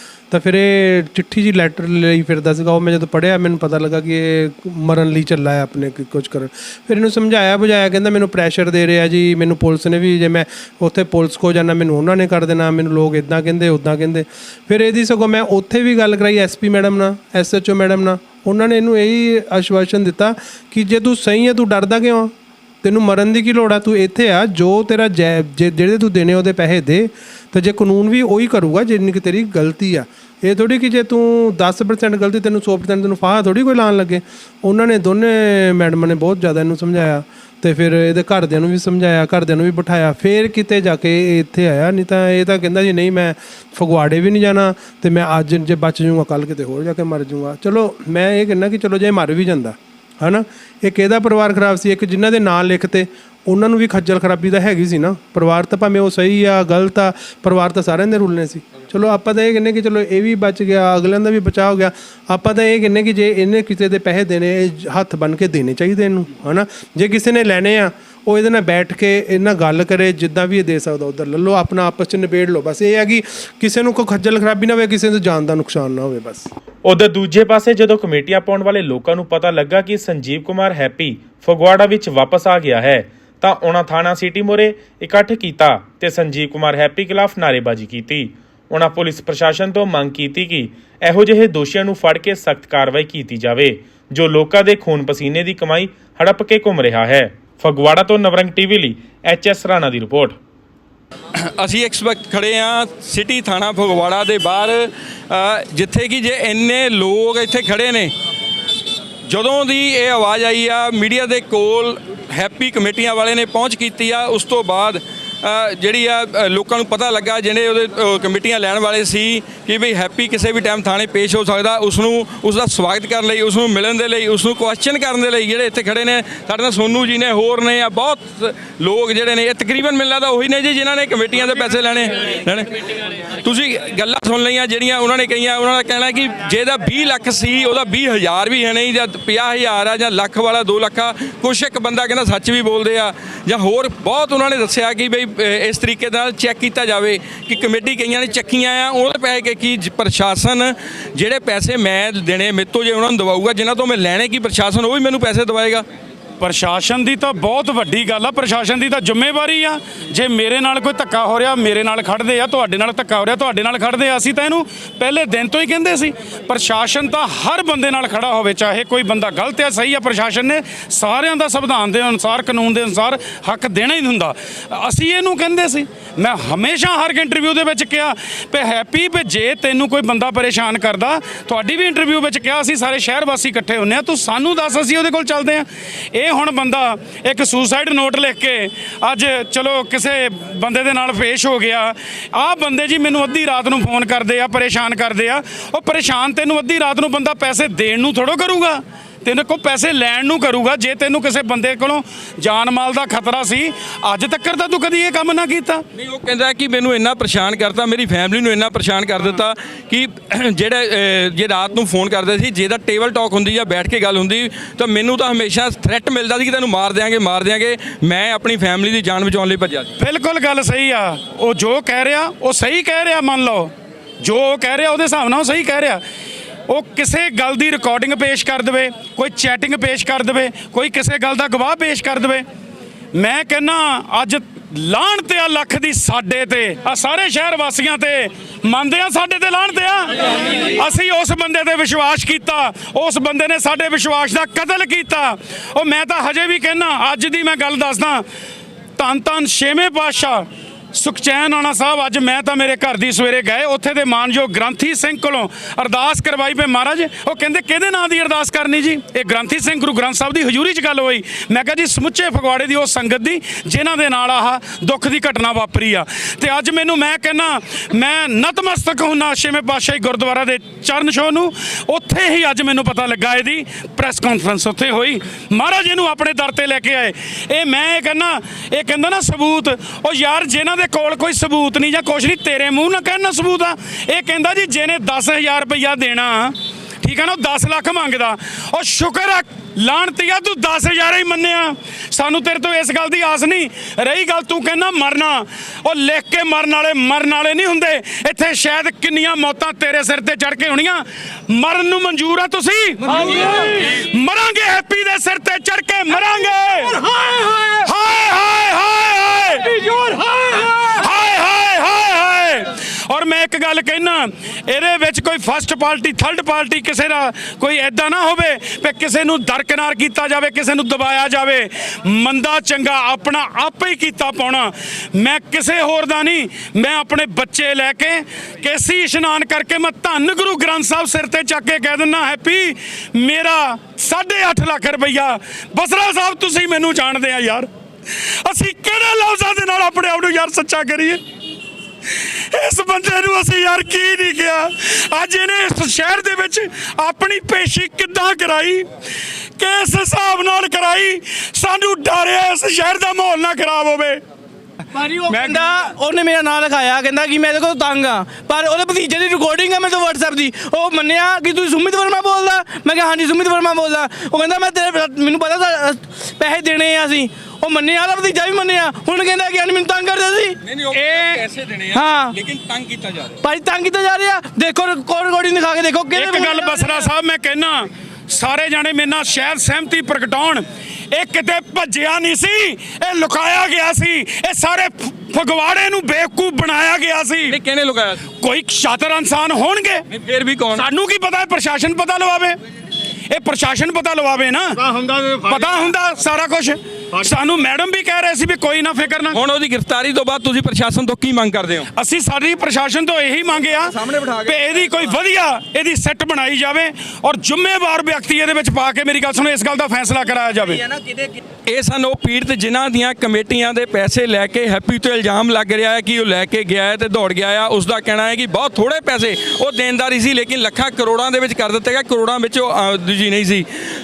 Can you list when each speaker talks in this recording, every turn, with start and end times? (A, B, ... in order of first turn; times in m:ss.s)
0:00.3-1:16.5 A
1:16.8-1:40.4 B
1:41.4-1:48.1 C
1:49.3-2:12.8 C
2:13.4-2:35.8 C
2:36.4-3:25.8 D
3:25.9-3:39.9 C
3:40.0-3:46.0 D
3:46.7-3:52.4 D
3:53.1-4:08.2 D
4:09.0-5:09.9 D
5:10.6-5:37.7 D
5:38.4-5:41.2 D
5:42.1-5:48.9 D
5:49.6-5:54.2 D
5:55.0-6:10.6 E
5:55.3-5:55.9 D
6:10.6-6:13.4 C
6:11.9-6:12.3 E
6:13.4-6:17.0 E
6:16.1-6:27.6 D
6:27.4-6:28.3 C
6:28.3-6:30.0 D
6:30.1-6:30.9 C
6:30.7-6:32.6 D
6:33.3-6:39.4 D
6:39.3-6:41.9 C
6:41.9-6:50.9 D
6:51.0-7:03.7 C